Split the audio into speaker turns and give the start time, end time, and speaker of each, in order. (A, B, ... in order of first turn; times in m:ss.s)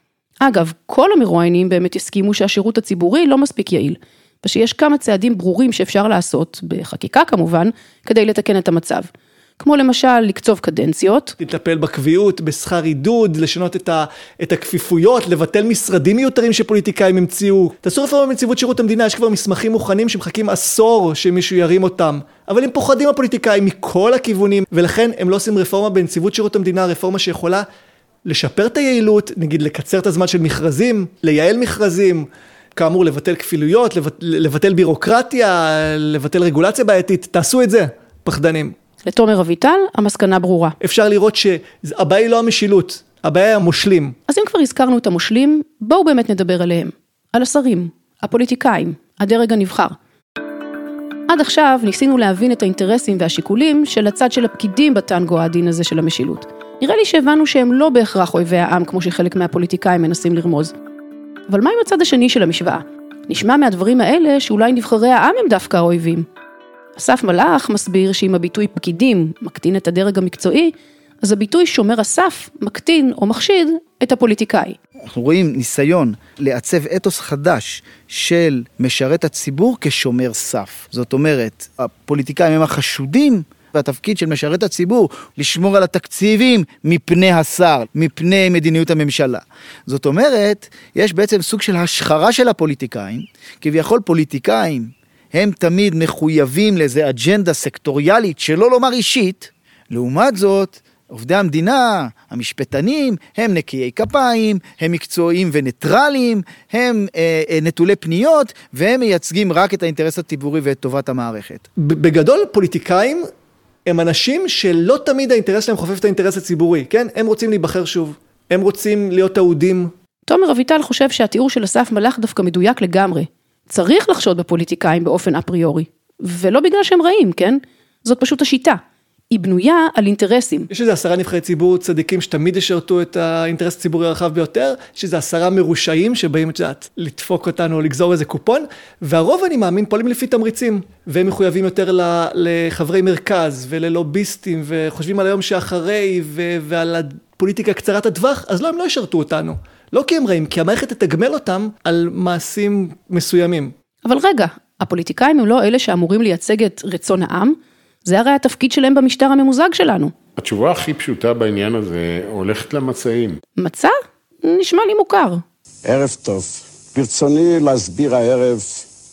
0:00.4-0:11.4 A
0:11.4-0:27.7 B
0:28.3-0:38.7 B
0:39.0-0:40.8 A
0:40.8-0:44.2 B
0:44.3-0:50.0 A
0:51.3-1:00.7 A
1:01.5-1:06.2 A
1:07.0-1:14.8 A
1:15.0-1:51.6 C
1:51.8-1:53.3 B
1:53.9-1:59.9 B
2:00.3-2:08.8 A
2:09.3-2:10.7 A
2:10.7-2:33.7 B
2:34.0-2:40.1 A
2:40.4-2:43.4 D
2:43.6-2:45.4 A
2:45.8-2:48.9 E